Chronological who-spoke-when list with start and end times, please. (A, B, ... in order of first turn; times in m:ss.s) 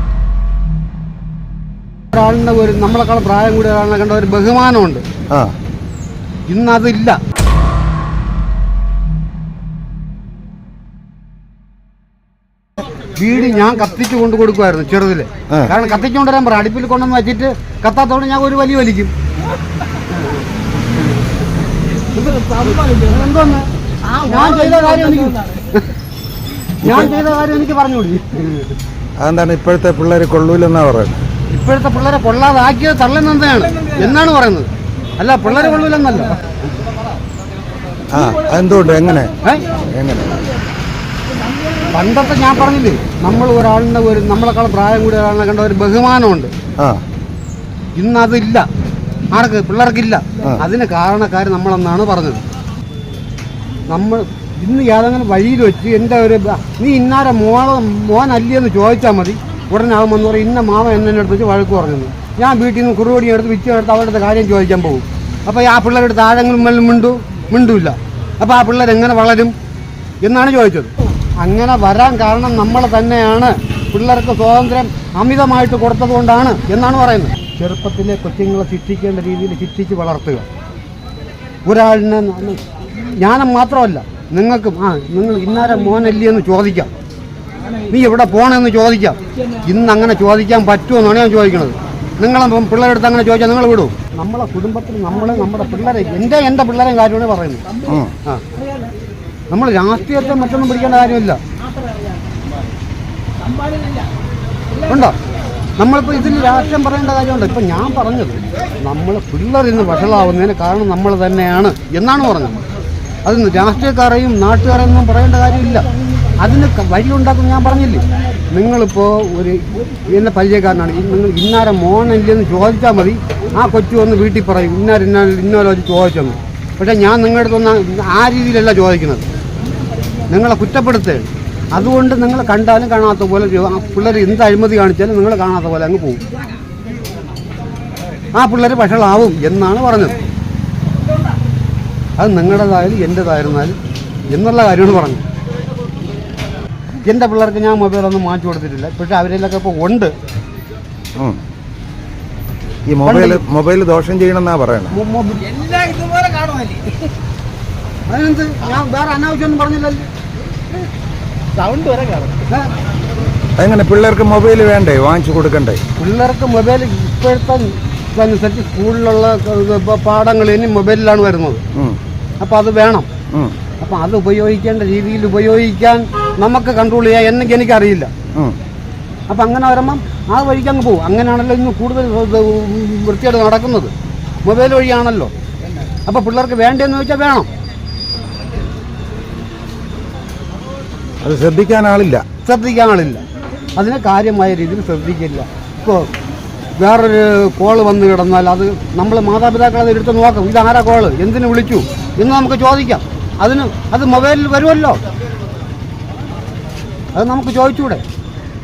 0:02.1-0:05.0 A
0:06.5-0:07.2 A
0:13.2-0:19.1 A
0:22.2-0:25.9 A
0:26.8-0:28.7 A
0:26.8-0:27.1 B
0:29.2-0:31.2 B
0:31.5-0:36.4 A
0:38.1-0:40.4 B
0:39.4-0:39.7 A
0:41.9-0:46.5 A
0:48.0-0:48.7 A
0:49.3-0:52.4 A
0:53.9-1:09.5 A
1:10.2-1:20.4 A
1:21.7-1:22.6 A
1:23.2-1:26.9 A
1:27.9-1:37.7 A
1:37.9-1:38.1 B
1:39.5-1:41.4 A
1:44.8-1:45.2 A
1:45.8-1:52.6 A
1:53.2-1:55.9 A
1:56.4-2:09.2 A
2:10.3-2:16.2 A
2:18.3-2:20.2 A
2:22.2-2:23.8 A
2:24.3-2:25.2 A
2:27.0-2:30.1 A
2:32.9-2:35.0 B
2:33.0-2:33.4 A
2:34.9-2:35.6 A
2:35.6-2:37.0 C
2:38.1-2:40.1 A
2:41.6-2:42.3 C
2:43.6-2:45.8 B
2:46.0-2:51.6 A
2:51.7-2:52.0 B
2:52.4-2:53.1 A
2:53.8-2:58.1 A
2:59.3-3:03.9 A
3:04.4-3:05.3 A
3:06.1-3:07.5 A
3:11.2-3:12.2 B
3:12.4-3:13.2 A
3:13.8-3:16.1 A
3:16.8-3:25.0 A
3:27.2-3:28.0 A